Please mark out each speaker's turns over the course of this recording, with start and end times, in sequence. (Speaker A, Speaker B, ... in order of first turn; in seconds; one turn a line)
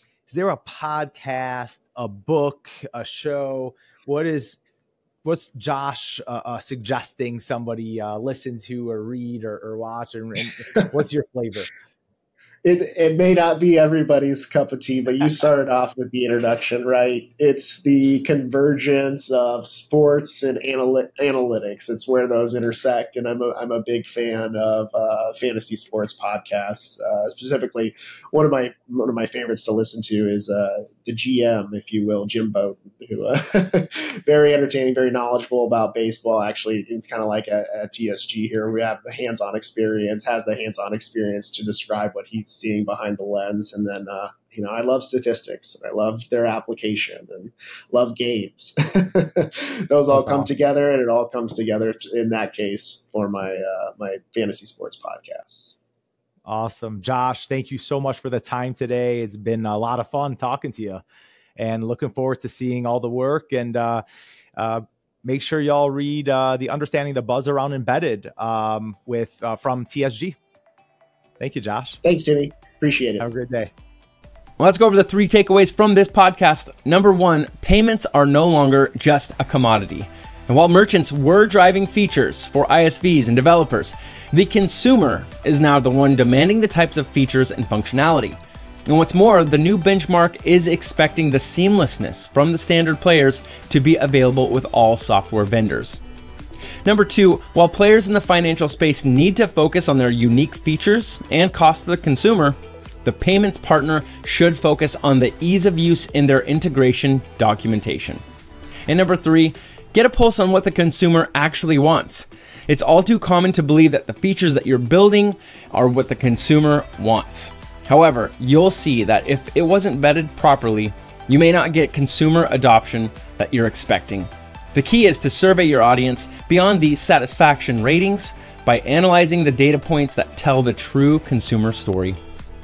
Speaker A: 0.3-4.6
Speaker A: 5.2-11.7
Speaker B: 12.6-55.8
Speaker A: 50.1-50.5
Speaker A: 56.4-61.0
Speaker A: 61.6-64.0
Speaker A: 64.5-70.4
Speaker A: 71.4-72.0
Speaker B: 72.0-73.2
Speaker A: 73.2-73.7
Speaker C: 74.6-96.0
Speaker C: 96.8-108.2
Speaker C: 108.9-132.2